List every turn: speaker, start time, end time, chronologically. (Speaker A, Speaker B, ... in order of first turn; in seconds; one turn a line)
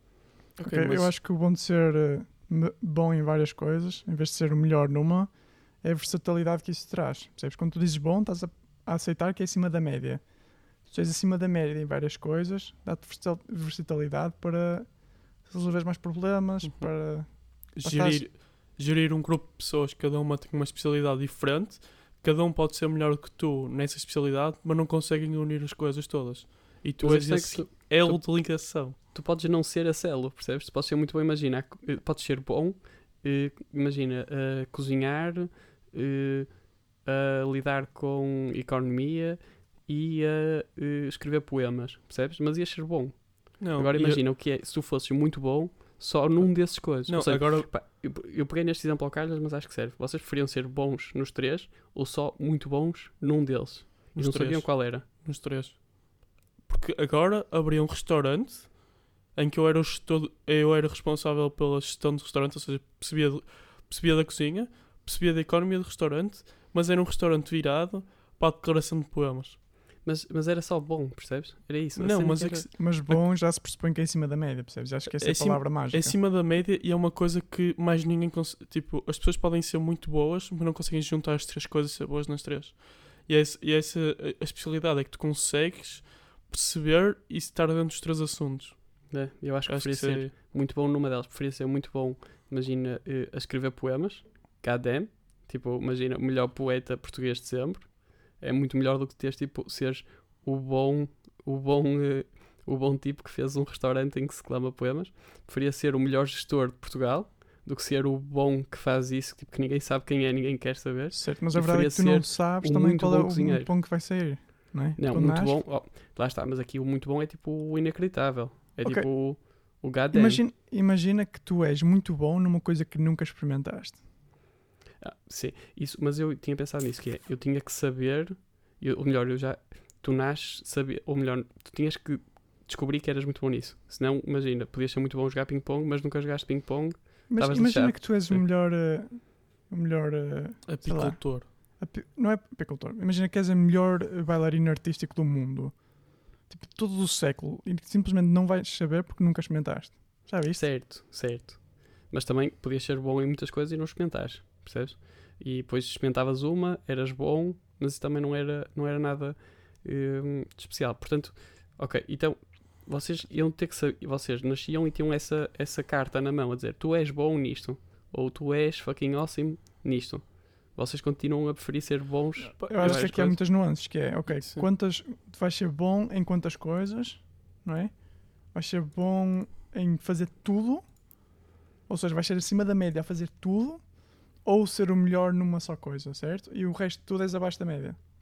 Speaker A: 0.6-1.1
Speaker B: 0.6-18.3
Speaker A: 16.6-29.0
Speaker C: 27.0-55.1
Speaker A: 43.6-44.2
Speaker A: 46.5-47.7
Speaker A: 54.1-69.6
Speaker C: 70.0-72.7
Speaker A: 72.0-73.2
Speaker B: 72.8-76.2
Speaker A: 75.1-90.3
Speaker C: 89.1-114.0
Speaker B: 111.1-115.6
Speaker C: 115.0-120.5
Speaker B: 118.8-119.6
Speaker B: 120.1-124.0
Speaker C: 125.0-138.4
Speaker B: 137.3-150.7
Speaker A: 140.7-141.5
Speaker C: 150.4-173.4
Speaker A: 172.6-173.1
Speaker B: 172.6-188.0
Speaker A: 174.3-174.7